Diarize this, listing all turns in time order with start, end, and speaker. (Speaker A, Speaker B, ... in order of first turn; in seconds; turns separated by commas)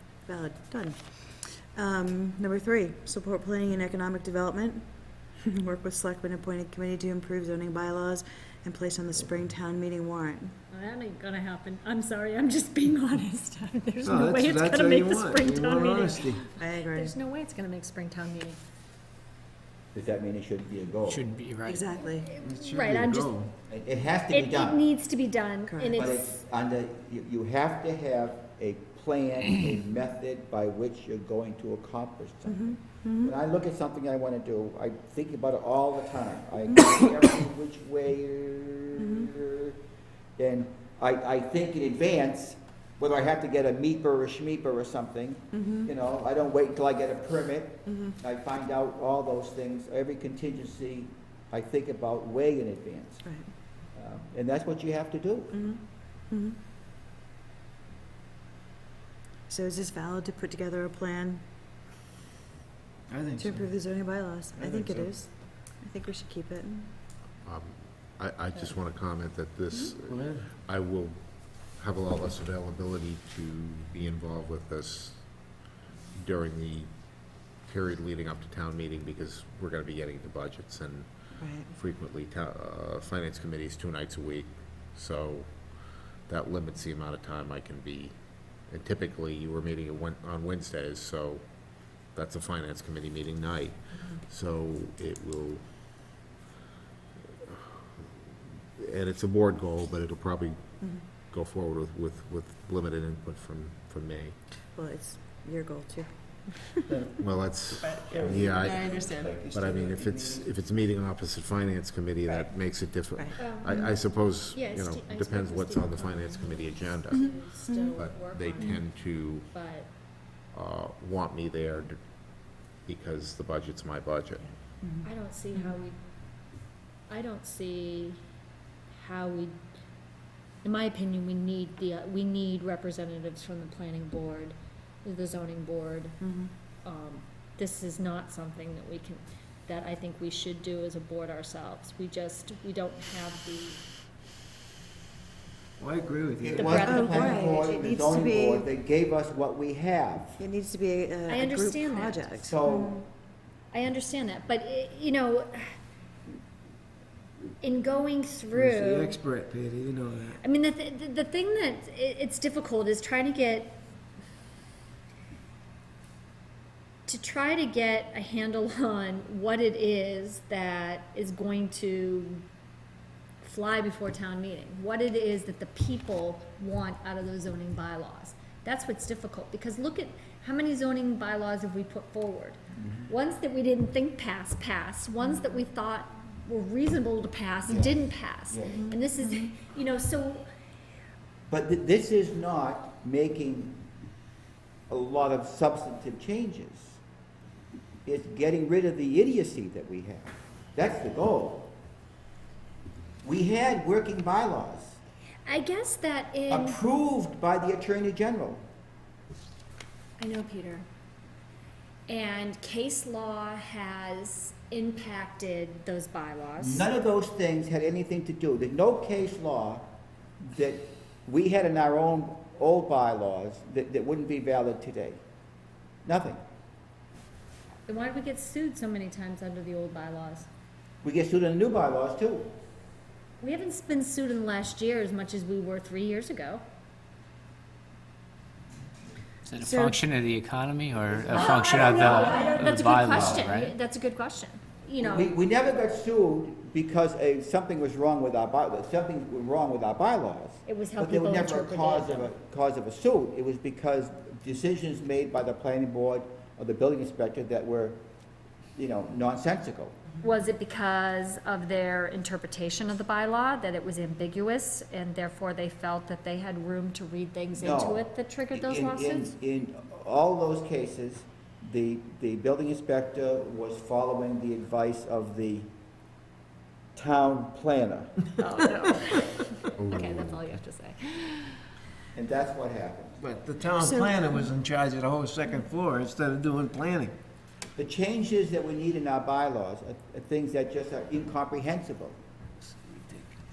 Speaker A: 0.2-10.5, Speaker B: 10.7-18.6, Speaker C: 14.0-16.5, Speaker A: 16.6-17.1, Speaker D: 19.9-21.3, Speaker E: 21.0-21.9, Speaker A: 21.7-22.3, Speaker B: 22.0-23.3, Speaker C: 22.4-23.5, Speaker D: 23.7-24.8, Speaker B: 24.3-26.3, Speaker A: 25.7-26.1, Speaker D: 25.9-39.8, Speaker A: 32.5-33.3, Speaker A: 39.0-39.3, Speaker D: 40.4-53.2, Speaker A: 45.5-45.9, Speaker D: 53.9-55.6, Speaker A: 55.5-56.5, Speaker A: 59.5-61.4, Speaker C: 63.1-63.7, Speaker A: 63.4-66.9, Speaker C: 64.6-65.1, Speaker F: 67.5-75.5, Speaker C: 70.0-70.5, Speaker F: 76.2-76.9, Speaker F: 77.6-85.6, Speaker A: 81.4-81.7, Speaker F: 86.2-88.1, Speaker F: 88.6-91.5, Speaker F: 92.0-95.6, Speaker F: 98.8-104.4, Speaker A: 104.7-107.0, Speaker C: 106.9-107.2, Speaker F: 107.2-117.3, Speaker C: 107.9-110.5, Speaker A: 113.2-113.9, Speaker B: 113.4-119.9, Speaker A: 117.7-118.1, Speaker F: 118.0-119.5, Speaker F: 120.5-122.0, Speaker F: 122.8-124.5, Speaker A: 124.8-125.7, Speaker B: 125.0-126.0, Speaker B: 127.1-128.2, Speaker B: 128.9-129.6, Speaker B: 130.6-136.2, Speaker A: 136.2-136.5, Speaker B: 136.8-143.8, Speaker C: 145.8-146.9, Speaker D: 146.4-150.4, Speaker B: 146.5-147.7, Speaker A: 146.8-148.7, Speaker A: 150.4-153.0, Speaker B: 151.3-152.3, Speaker D: 152.4-153.0, Speaker B: 153.7-155.7, Speaker B: 157.6-159.2, Speaker C: 158.5-160.4, Speaker B: 160.4-163.8, Speaker B: 167.1-172.4, Speaker B: 173.4-190.5, Speaker D: 182.7-183.1, Speaker D: 187.7-188.9, Speaker A: 188.9-189.5, Speaker D: 191.5-193.8, Speaker D: 194.9-197.0, Speaker D: 198.0-201.7, Speaker D: 203.2-205.0, Speaker B: 205.4-206.8, Speaker D: 206.5-208.6, Speaker B: 210.2-210.8, Speaker B: 212.1-216.9, Speaker D: 216.6-219.9, Speaker D: 220.4-225.2, Speaker D: 226.0-226.4, Speaker B: 227.9-230.5, Speaker D: 231.0-232.5, Speaker B: 233.4-236.6, Speaker E: 239.5-243.7, Speaker A: 239.6-240.0, Speaker B: 241.2-245.3, Speaker D: 241.3-242.5, Speaker D: 245.0-258.0, Speaker B: 250.6-252.3, Speaker D: 258.8-260.0, Speaker B: 260.2-269.3, Speaker D: 267.6-275.7, Speaker D: 276.9-278.2, Speaker B: 278.4-281.6, Speaker F: 279.8-280.6, Speaker D: 282.1-283.2, Speaker C: 283.2-287.2, Speaker A: 283.8-284.4, Speaker D: 287.8-292.2, Speaker C: 292.9-293.2